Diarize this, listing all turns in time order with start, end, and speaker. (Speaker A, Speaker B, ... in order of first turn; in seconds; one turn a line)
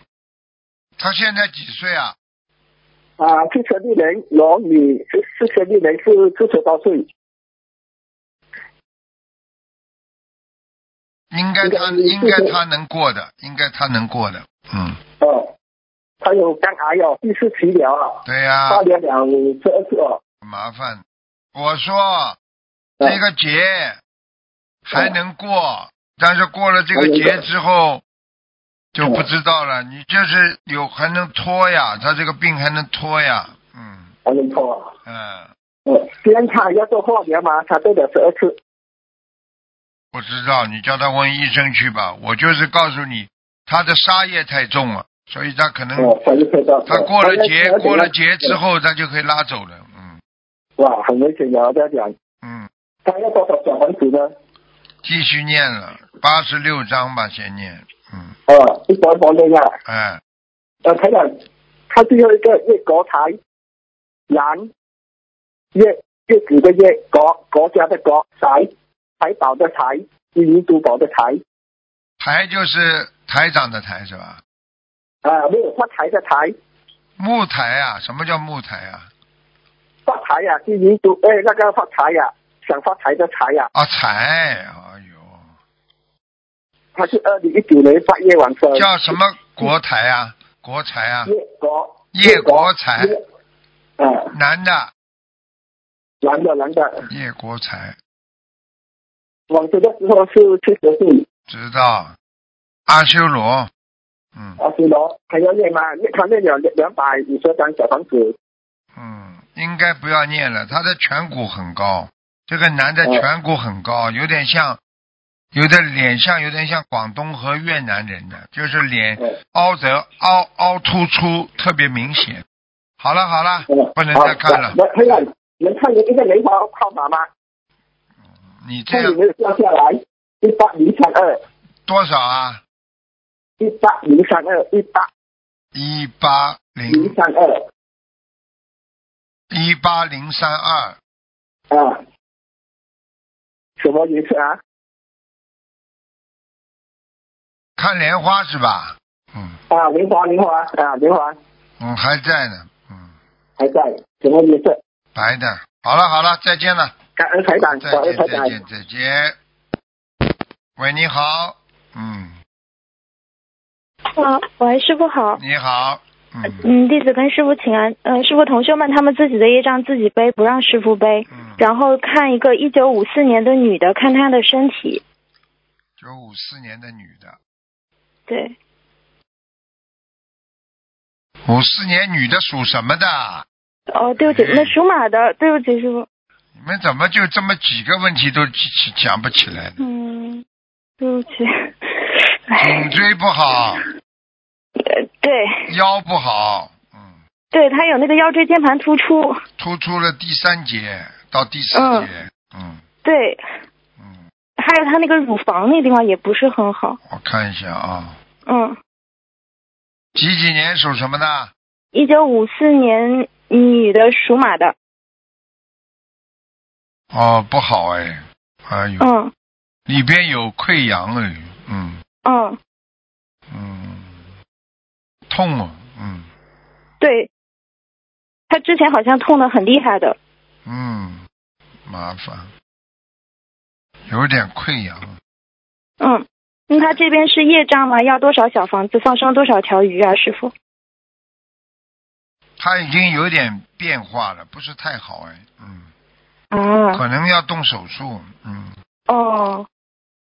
Speaker A: 1.0-2.2
Speaker B: 3.2-7.1
Speaker A: 11.3-15.0
Speaker B: 11.6-12.6
Speaker B: 15.2-15.5
Speaker B: 16.2-20.2
Speaker A: 18.2-18.8
Speaker A: 20.4-22.4
Speaker A: 23.0-24.0
Speaker A: 24.9-28.0
Speaker B: 26.9-27.4
Speaker A: 28.9-34.1
Speaker B: 34.2-34.9
Speaker A: 35.1-35.5
Speaker B: 35.9-38.6
Speaker A: 40.1-46.2
Speaker B: 46.0-48.6
Speaker A: 46.9-50.2
Speaker B: 50.8-52.1
Speaker A: 52.4-52.7
Speaker B: 53.0-54.3
Speaker A: 55.0-58.4
Speaker B: 58.5-59.8
Speaker A: 59.9-60.2
Speaker B: 60.8-61.3
Speaker B: 61.9-63.4
Speaker B: 64.3-64.7
Speaker B: 65.7-71.4
Speaker A: 72.2-74.4
Speaker B: 75.2-76.5
Speaker A: 77.2-79.1
Speaker B: 80.1-83.7
Speaker A: 83.7-85.4
Speaker B: 87.0-89.2
Speaker A: 88.7-91.3
Speaker B: 91.3-93.2
Speaker A: 92.1-93.2
Speaker B: 94.0-94.3
Speaker A: 94.3-94.9
Speaker B: 96.2-97.1
Speaker A: 97.1-98.0
Speaker B: 99.5-101.2
Speaker A: 101.5-102.2
Speaker A: 102.9-103.7
Speaker A: 104.3-104.6
Speaker B: 104.6-108.3
Speaker A: 109.0-114.8
Speaker A: 115.5-122.4
Speaker A: 123.0-125.2
Speaker B: 123.7-127.3
Speaker A: 128.6-129.2
Speaker B: 128.9-131.4
Speaker A: 131.9-132.6
Speaker B: 133.6-135.1
Speaker A: 135.7-137.2
Speaker B: 136.9-137.6
Speaker A: 139.5-141.0
Speaker B: 141.7-142.0
Speaker B: 143.8-144.6
Speaker A: 147.8-149.6
Speaker B: 149.7-151.4
Speaker A: 151.8-153.1
Speaker B: 153.6-154.8
Speaker A: 155.2-156.9
Speaker B: 157.2-158.6
Speaker A: 157.7-159.4
Speaker A: 160.8-162.4
Speaker C: 164.1-165.4
Speaker A: 165.4-166.7
Speaker C: 166.6-175.0
Speaker A: 171.3-171.6
Speaker A: 176.0-177.4
Speaker C: 178.3-178.6
Speaker A: 181.4-183.5
Speaker C: 183.9-186.1
Speaker A: 184.2-184.8
Speaker A: 186.6-189.8
Speaker C: 189.8-190.4
Speaker C: 191.0-192.9
Speaker A: 192.6-193.8
Speaker C: 194.8-195.7
Speaker A: 195.7-197.2
Speaker C: 197.5-199.4
Speaker A: 199.6-202.8
Speaker C: 201.7-202.1
Speaker C: 203.0-203.4
Speaker A: 204.0-204.2
Speaker C: 204.6-207.0
Speaker A: 207.1-208.2
Speaker C: 208.5-208.8
Speaker A: 210.2-211.5
Speaker C: 211.9-214.7
Speaker A: 217.1-219.1
Speaker C: 219.0-219.3
Speaker A: 219.9-222.0
Speaker C: 222.2-222.6
Speaker A: 223.5-224.2
Speaker A: 225.3-226.3
Speaker C: 227.0-227.3
Speaker C: 228.5-230.2
Speaker A: 230.7-231.2
Speaker A: 231.9-232.5
Speaker A: 234.1-235.1
Speaker C: 236.0-240.5
Speaker A: 242.6-245.9
Speaker C: 246.5-247.0
Speaker A: 246.9-248.8
Speaker C: 249.1-249.7